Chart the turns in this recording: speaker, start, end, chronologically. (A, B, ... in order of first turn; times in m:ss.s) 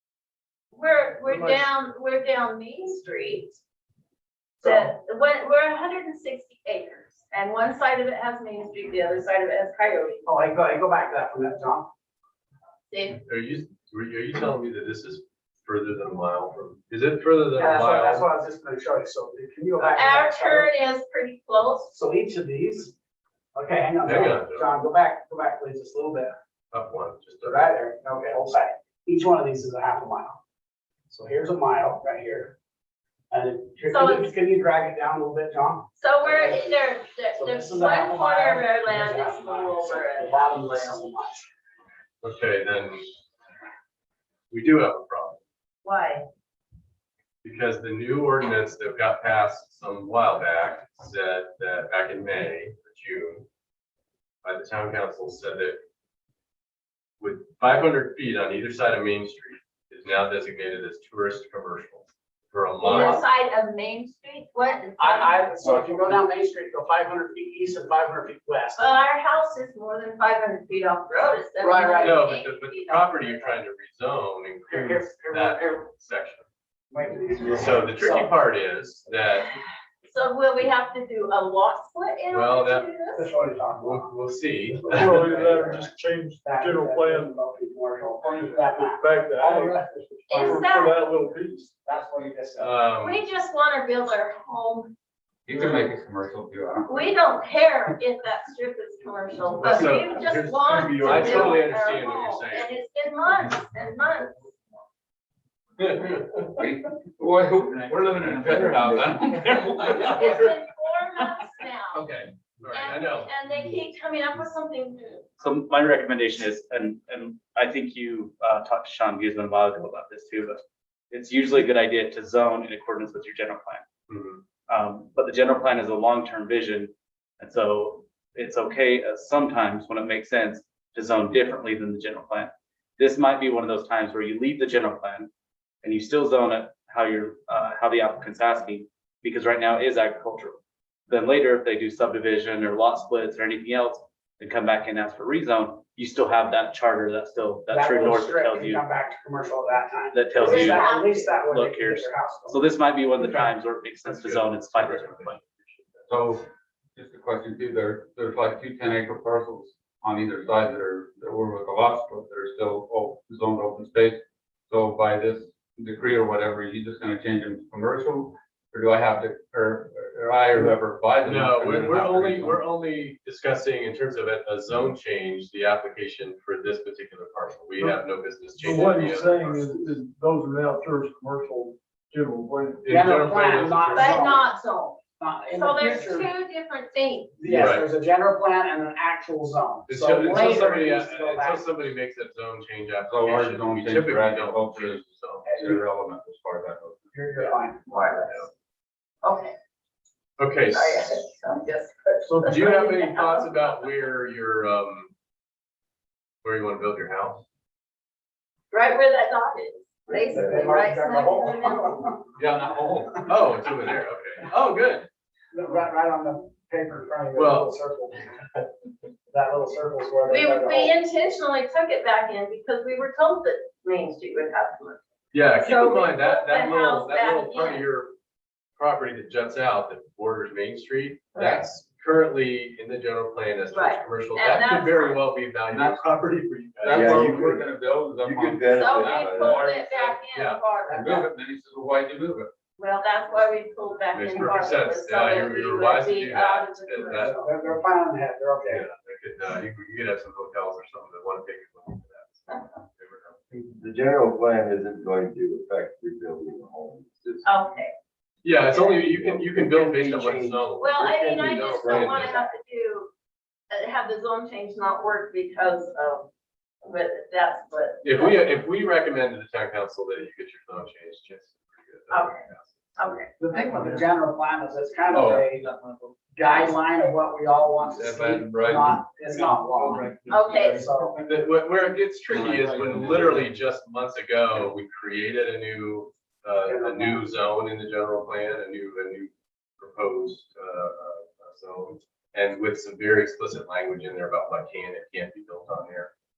0:00.7-0:03.6 A
0:01.3-0:02.0 B
0:04.6-0:10.2 A
0:04.6-0:04.9 C
0:10.2-0:11.9 C
0:12.9-0:13.2 A
0:13.3-0:18.3 B
0:17.6-0:20.7 C
0:19.8-0:21.9 A
0:21.9-0:22.9 C
0:23.5-0:26.4 C
0:24.0-0:24.7 B
0:26.7-0:27.6 B
0:27.4-0:30.4 C
0:31.1-0:32.6 C
0:33.3-0:36.8 C
0:33.9-0:34.4 A
0:36.0-0:40.8 A
0:37.4-0:41.5 C
0:42.2-0:43.1 B
0:44.5-0:45.4 B
0:45.8-0:46.3 A
0:47.4-0:53.5 B
0:54.4-0:55.8 B
0:57.2-1:03.2 B
1:02.8-1:05.8 A
1:02.9-1:03.2 C
1:05.0-1:08.9 C
1:08.8-1:13.1 A
1:11.6-1:12.2 C
1:12.0-1:16.5 B
1:13.1-1:13.6 C
1:14.7-1:15.8 C
1:16.9-1:18.3 C
1:17.4-1:19.6 B
1:20.0-1:23.3 A
1:22.3-1:22.9 B
1:23.1-1:24.2 C
1:23.6-1:25.1 B
1:24.7-1:25.8 C
1:25.0-1:27.4 D
1:26.4-1:30.9 C
1:28.3-1:31.7 D
1:30.3-1:31.0 A
1:31.8-1:32.8 C
1:32.6-1:33.2 B
1:33.0-1:34.9 A
1:35.5-1:37.0 E
1:36.9-1:44.5 A
1:39.6-1:42.7 B
1:40.7-1:41.6 F
1:45.8-1:46.4 B
1:46.6-1:50.5 E
1:47.7-1:49.7 G
1:49.8-1:52.0 A
1:52.6-1:53.3 B
1:52.7-1:55.2 A
1:55.4-2:03.8 G
2:04.1-2:04.4 B
2:04.7-2:15.3 G
2:15.8-2:28.8 G
2:27.7-2:32.6 C
2:30.1-2:35.4 G
2:30.4-2:31.4 A
2:34.0-2:36.1 B
2:36.1-2:36.4 E
2:37.0-2:52.6 E
2:51.2-2:59.9 B
2:58.6-3:02.8 D
3:02.8-3:04.3 B
3:02.9-3:04.4 C
3:03.9-3:07.4 A
3:05.2-3:06.3 C
3:07.4-3:11.7 C
3:07.5-3:07.9 B
3:09.9-3:15.5 B
3:10.3-3:10.6 A
3:13.0-3:17.5 E
3:17.1-3:17.9 C
3:17.9-3:18.5 A
3:19.2-3:19.5 A
3:20.4-3:21.1 B
3:20.7-3:23.5 A
3:22.4-3:25.1 B
3:26.4-3:27.4 B
3:28.7-3:32.0 A
3:30.1-3:30.8 F
3:30.3-3:32.2 C
3:32.4-3:33.3 E
3:33.3-3:35.1 B
3:35.5-3:38.6 C
3:37.4-3:37.8 B
3:39.3-3:40.9 C
3:40.3-3:45.0 A
3:45.3-3:48.2 B
3:45.6-3:47.9 A
3:48.8-3:57.4 B
3:51.4-3:51.7 A
3:53.7-3:55.2 A
3:55.7-3:56.2 E
3:56.8-4:00.2 E
3:56.9-3:59.7 F
3:58.8-4:01.2 A
4:00.3-4:00.6 B
4:00.9-4:02.5 E
4:02.8-4:07.4 A
4:04.1-4:07.5 B
4:07.1-4:08.8 C
4:08.7-4:13.4 B
4:13.5-4:17.5 F
4:17.4-4:17.9 A
4:18.4-4:22.3 B
4:18.7-4:22.5 F
4:20.8-4:23.1 A
4:23.7-4:26.3 A
4:26.8-4:28.5 A
4:28.0-4:32.7 B
4:32.1-4:32.4 A
4:33.0-4:33.3 A
4:33.4-4:35.7 C
4:35.1-4:36.0 E
4:36.3-4:41.2 C
4:38.0-4:41.4 E
4:40.3-4:40.9 A
4:41.2-4:56.1 B
4:42.3-4:43.5 E
4:46.6-4:47.3 C